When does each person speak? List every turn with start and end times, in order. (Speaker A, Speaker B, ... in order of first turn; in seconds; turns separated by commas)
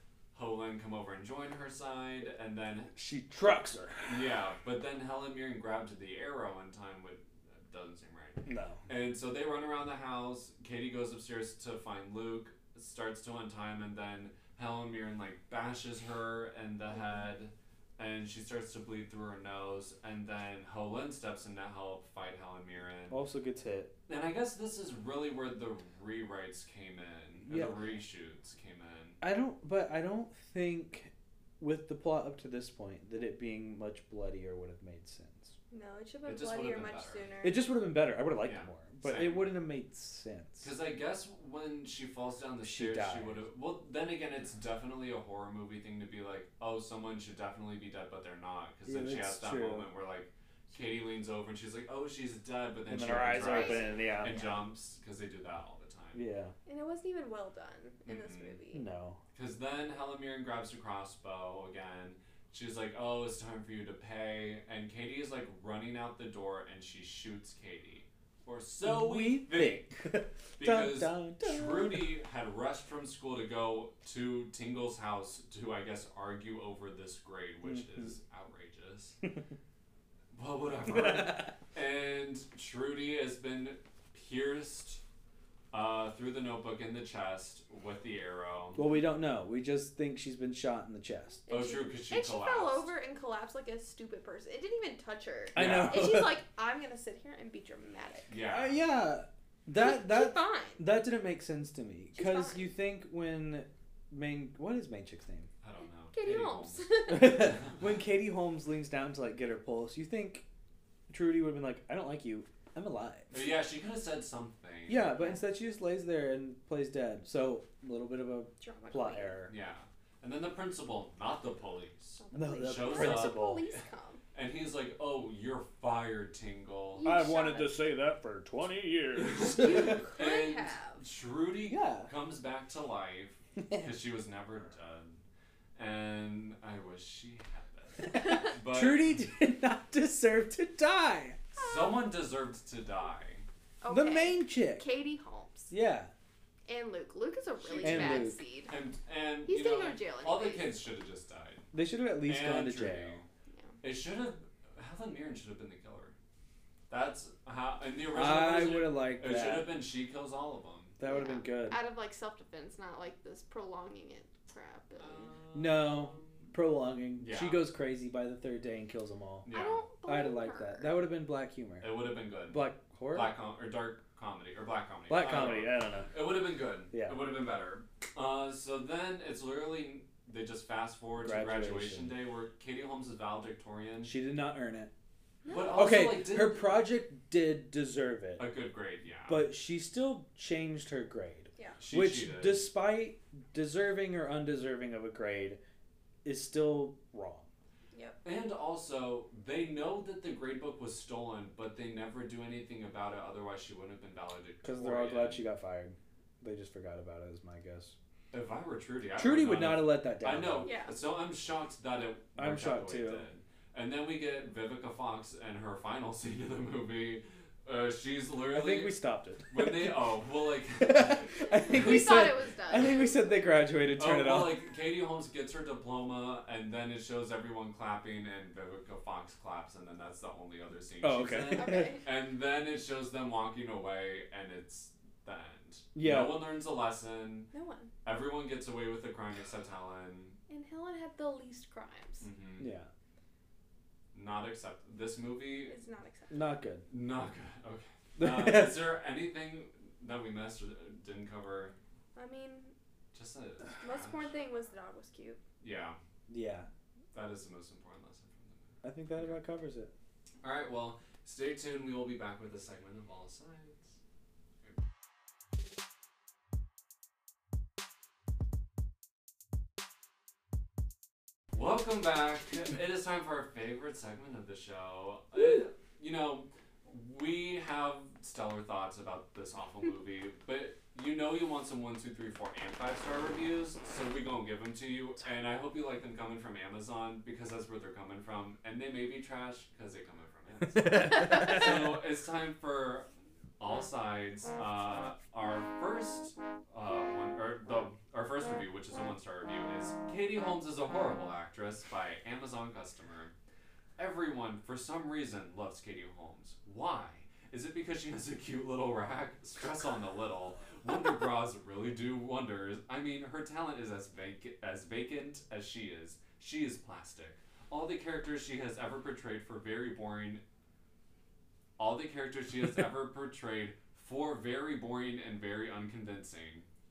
Speaker A: 0.3-2.9, Speaker B: 2.9-4.2, Speaker A: 4.0-23.2, Speaker B: 8.4-8.8, Speaker B: 23.1-23.9, Speaker A: 24.1-29.2, Speaker B: 27.5-27.9, Speaker B: 29.2-35.5, Speaker C: 35.7-37.6, Speaker A: 36.2-37.3, Speaker B: 37.4-40.7, Speaker A: 38.4-39.6, Speaker A: 40.6-56.2, Speaker B: 42.6-43.4, Speaker B: 48.9-49.9, Speaker B: 52.9-54.5, Speaker C: 53.4-54.0, Speaker B: 56.1-56.5, Speaker C: 56.6-58.8, Speaker A: 58.0-58.6, Speaker B: 58.7-59.2, Speaker A: 59.3-79.2, Speaker B: 68.8-72.1, Speaker B: 77.6-78.1, Speaker A: 80.3-85.0, Speaker B: 80.8-81.5, Speaker A: 85.7-88.9, Speaker B: 88.8-91.4, Speaker C: 91.5-98.3, Speaker A: 91.5-92.9, Speaker B: 95.5-96.4, Speaker A: 95.5-96.2, Speaker A: 98.3-98.8, Speaker B: 98.5-105.5, Speaker C: 99.7-100.8, Speaker C: 102.1-102.7, Speaker A: 105.6-107.9, Speaker C: 106.1-107.5, Speaker B: 107.1-110.4, Speaker B: 111.1-113.3, Speaker A: 113.3-115.3, Speaker B: 114.9-119.5, Speaker C: 118.6-119.4, Speaker A: 119.5-123.8, Speaker C: 122.2-124.2, Speaker B: 122.3-123.6, Speaker A: 124.3-127.1, Speaker C: 126.9-127.8, Speaker B: 127.0-130.1, Speaker A: 129.2-135.2, Speaker C: 129.5-131.0, Speaker B: 131.7-132.1, Speaker B: 133.6-133.9, Speaker A: 135.8-139.1, Speaker B: 138.1-141.4, Speaker C: 138.1-138.4, Speaker A: 141.6-143.4, Speaker C: 141.6-142.0, Speaker C: 143.8-145.7, Speaker B: 143.9-144.8, Speaker B: 145.7-146.1, Speaker C: 146.7-148.7, Speaker A: 147.6-151.7, Speaker B: 147.8-148.4, Speaker C: 149.4-150.7, Speaker B: 151.7-153.2, Speaker A: 152.2-153.2, Speaker A: 153.8-156.1, Speaker A: 156.9-160.9, Speaker B: 158.1-159.7, Speaker B: 161.0-161.8, Speaker C: 161.0-165.3, Speaker A: 165.0-166.5, Speaker B: 165.5-169.5, Speaker A: 167.2-167.6, Speaker A: 169.4-169.8, Speaker C: 169.5-170.9, Speaker B: 170.0-173.3, Speaker A: 171.8-184.1, Speaker B: 175.1-176.2, Speaker B: 176.9-177.2, Speaker B: 181.2-182.2, Speaker B: 184.0-184.9, Speaker C: 185.4-185.9, Speaker A: 185.5-186.8, Speaker B: 185.7-188.4, Speaker A: 188.4-189.5, Speaker B: 189.3-195.6, Speaker A: 191.8-192.7, Speaker B: 196.2-197.5, Speaker C: 197.9-198.2, Speaker A: 198.2-205.4, Speaker B: 204.6-207.9, Speaker A: 208.3-218.9, Speaker B: 209.2-210.8, Speaker C: 210.6-210.9, Speaker B: 212.3-213.2, Speaker B: 218.5-220.0, Speaker A: 219.5-222.4, Speaker B: 220.8-224.6, Speaker C: 221.5-223.4, Speaker A: 223.9-237.5, Speaker B: 231.0-231.9, Speaker C: 231.5-232.0, Speaker B: 235.9-236.5, Speaker C: 237.5-237.9, Speaker A: 238.0-240.3, Speaker C: 240.5-242.2, Speaker A: 242.2-242.7, Speaker B: 242.6-242.9, Speaker A: 244.1-245.8, Speaker C: 245.7-246.5, Speaker B: 246.3-246.8, Speaker A: 246.9-251.7, Speaker B: 248.2-248.9, Speaker C: 252.2-252.7, Speaker A: 253.1-254.3, Speaker C: 253.8-255.4, Speaker A: 255.6-256.0, Speaker B: 256.3-256.7, Speaker A: 257.1-259.4, Speaker B: 258.8-259.9, Speaker A: 260.4-264.0, Speaker A: 271.5-293.1, Speaker B: 290.7-291.9, Speaker A: 293.6-303.3, Speaker A: 304.0-320.4, Speaker A: 321.8-326.7